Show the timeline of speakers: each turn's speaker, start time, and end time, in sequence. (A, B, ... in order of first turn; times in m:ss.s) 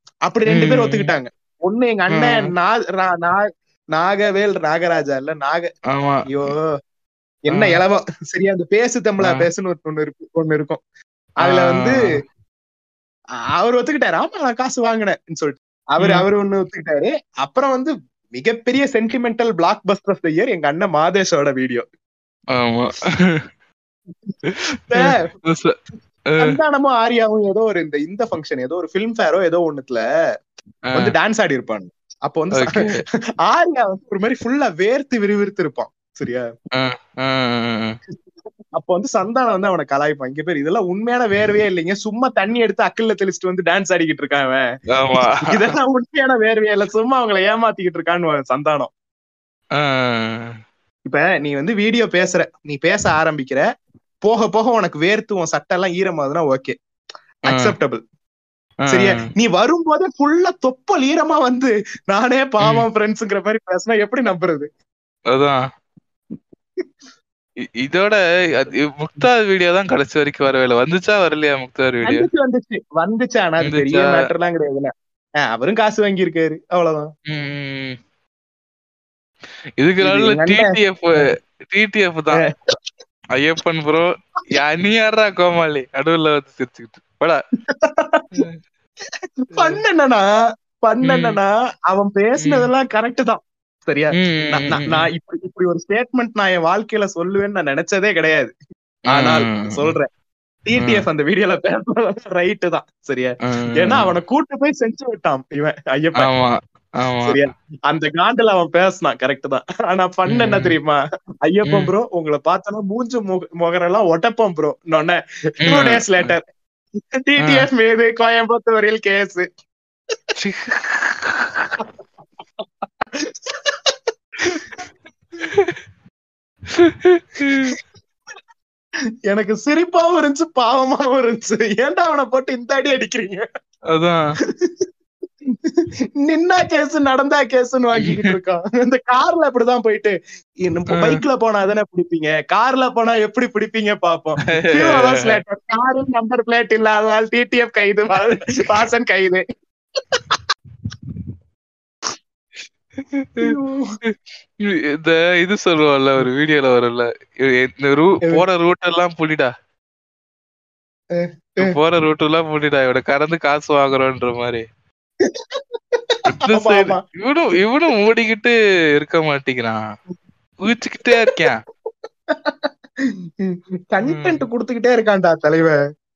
0:00.3-0:05.7 A
0:00.5-0:01.1 B
0:02.1-0:02.5 B
0:05.9-0:06.5 B
0:06.3-0:06.6 A
0:07.5-0:10.8 A
0:07.5-0:07.8 B
0:11.4-0:12.1 A
0:11.4-0:12.0 B
0:13.6-0:21.8 A
0:22.6-0:23.5 B
0:24.5-0:25.8 B
0:26.3-0:26.6 B
0:26.4-0:30.0 A
0:31.0-0:32.9 A
0:32.6-0:33.0 B
0:33.4-0:36.5 A
0:36.8-0:38.0 B
0:38.8-0:44.6 A
0:44.9-0:45.7 B
0:45.2-0:48.9 A
0:49.8-0:50.5 B
0:51.1-0:53.6 A
0:54.2-0:56.8 A
0:57.5-0:58.0 A
0:58.9-0:59.2 B
0:58.9-1:04.7 A
1:05.3-1:05.6 B
1:07.8-1:12.3 B
1:12.0-1:14.9 A
1:13.6-1:14.3 B
1:15.4-1:17.1 A
1:17.3-1:18.0 B
1:19.8-1:22.4 B
1:20.0-1:21.3 A
1:23.4-1:27.4 B
1:27.7-1:28.5 A
1:29.4-1:30.2 A
1:29.5-1:29.8 B
1:30.8-1:38.5 A
1:31.0-1:31.4 B
1:32.4-1:32.7 B
1:34.2-1:35.1 B
1:39.1-1:40.0 B
1:39.1-1:40.1 A
1:40.7-1:46.3 A
1:40.8-1:41.0 B
1:43.5-1:44.1 B
1:46.2-1:47.4 B
1:47.2-1:56.4 A
1:50.3-1:50.7 B
1:55.6-1:56.3 B
1:57.2-1:59.4 A
1:57.4-1:57.7 B
2:00.4-2:01.8 B
2:03.2-2:03.9 A
2:06.7-2:07.8 B
2:07.5-2:07.8 A
2:09.3-2:13.5 A
2:13.9-2:14.2 B
2:15.5-2:20.1 A
2:18.0-2:18.3 B
2:20.7-2:29.4 A
2:20.9-2:21.2 B
2:24.6-2:25.4 B
2:33.0-2:33.5 B
2:33.4-2:34.0 A
2:34.0-2:39.5 B
2:41.1-2:41.8 A
2:41.6-2:44.6 B
2:45.2-2:47.0 A
2:46.3-2:49.8 B
2:50.6-2:51.6 B
2:52.3-2:55.8 A
2:54.0-2:54.4 B